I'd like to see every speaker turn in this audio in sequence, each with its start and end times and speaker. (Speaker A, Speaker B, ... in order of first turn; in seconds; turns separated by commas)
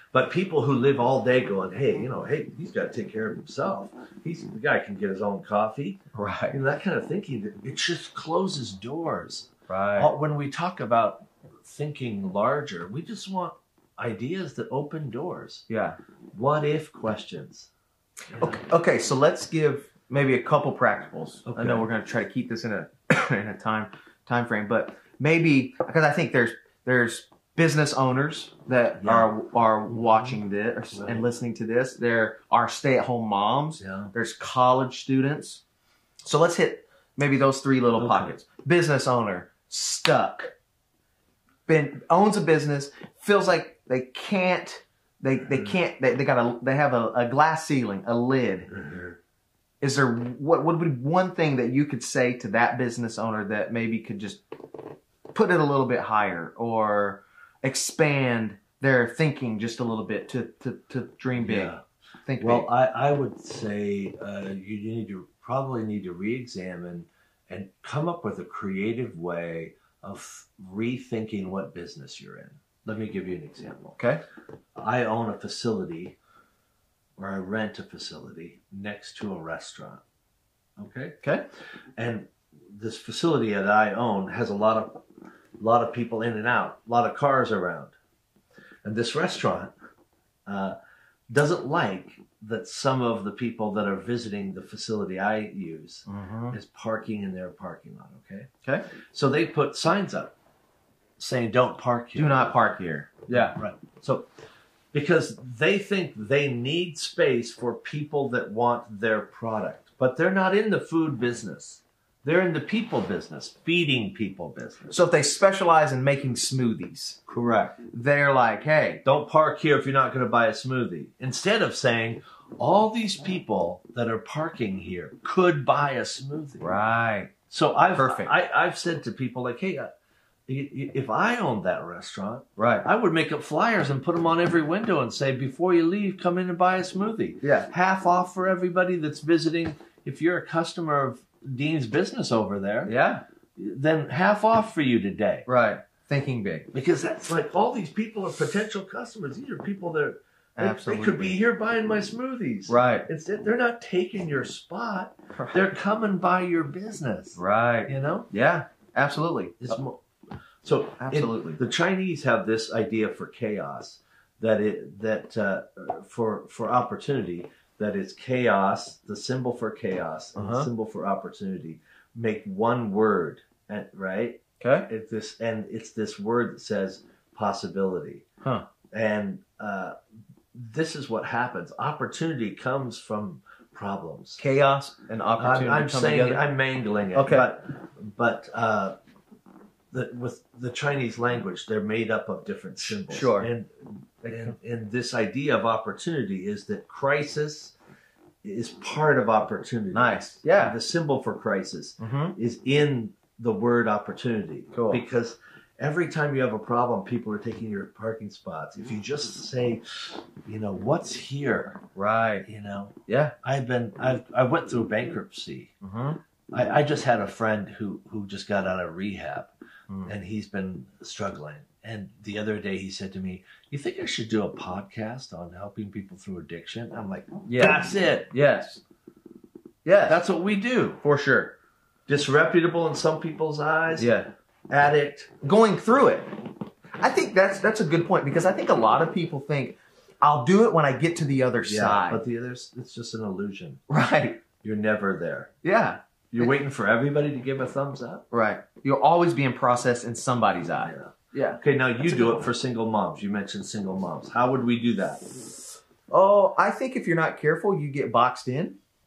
Speaker A: 0.1-15.7, Speaker B: 6.1-6.6, Speaker B: 9.7-10.1, Speaker B: 15.7-16.0, Speaker A: 16.3-17.7, Speaker A: 18.3-18.6, Speaker B: 18.3-35.6, Speaker A: 21.4-21.9, Speaker A: 29.0-29.3, Speaker A: 29.9-30.4, Speaker A: 30.9-31.3, Speaker A: 33.8-34.1, Speaker B: 36.2-40.5, Speaker A: 38.0-38.3, Speaker B: 41.7-48.7, Speaker A: 45.4-45.8, Speaker A: 48.7-49.2, Speaker B: 49.8-54.4, Speaker B: 55.3-61.7, Speaker A: 61.4-61.8, Speaker B: 62.3-62.7, Speaker A: 62.4-74.0, Speaker B: 74.0-74.2, Speaker A: 74.7-76.2, Speaker A: 77.2-80.0, Speaker A: 80.8-81.2, Speaker A: 82.0-85.0, Speaker A: 85.6-87.9, Speaker A: 88.8-89.7, Speaker A: 90.5-90.8, Speaker A: 91.3-98.5, Speaker B: 96.1-96.5, Speaker A: 99.1-100.3, Speaker A: 101.2-102.5, Speaker B: 102.1-103.6, Speaker A: 103.3-104.3, Speaker A: 104.9-115.0, Speaker B: 114.9-117.2, Speaker A: 117.3-117.8, Speaker B: 117.9-119.0, Speaker A: 119.0-126.8, Speaker B: 126.6-127.3, Speaker A: 127.5-129.9, Speaker B: 127.9-128.3, Speaker A: 130.5-142.9, Speaker B: 132.6-132.9, Speaker B: 137.4-137.7, Speaker B: 142.8-143.2, Speaker A: 143.6-145.4, Speaker B: 145.4-146.7, Speaker A: 146.7-158.3, Speaker B: 150.6-151.4, Speaker B: 152.7-153.1, Speaker B: 155.3-155.7, Speaker B: 157.3-159.8, Speaker A: 159.6-160.0, Speaker A: 160.6-178.2, Speaker B: 161.0-161.6, Speaker B: 170.3-170.7, Speaker B: 174.6-174.9, Speaker A: 178.9-179.9, Speaker A: 180.5-184.4, Speaker B: 184.4-186.4, Speaker A: 185.4-188.9, Speaker B: 187.1-187.5, Speaker A: 189.9-197.7, Speaker B: 192.9-193.5, Speaker B: 194.2-194.5, Speaker A: 198.4-211.8, Speaker B: 199.9-200.8, Speaker B: 202.0-202.3, Speaker B: 204.7-205.0, Speaker B: 211.9-212.4, Speaker A: 212.4-215.7, Speaker B: 213.1-213.3, Speaker B: 215.8-216.2, Speaker A: 216.5-219.5, Speaker B: 219.9-220.1, Speaker A: 220.0-228.3, Speaker B: 227.5-228.8, Speaker B: 229.8-230.2, Speaker A: 230.1-231.0, Speaker B: 231.0-231.6, Speaker A: 232.1-234.1, Speaker B: 234.0-234.3, Speaker A: 234.7-235.3, Speaker B: 235.4-236.3, Speaker B: 237.0-242.2, Speaker A: 241.6-243.8, Speaker B: 243.9-244.4, Speaker A: 244.6-245.5, Speaker B: 245.6-246.5, Speaker A: 246.3-248.2, Speaker B: 248.3-252.5, Speaker A: 250.8-255.3, Speaker B: 256.1-258.8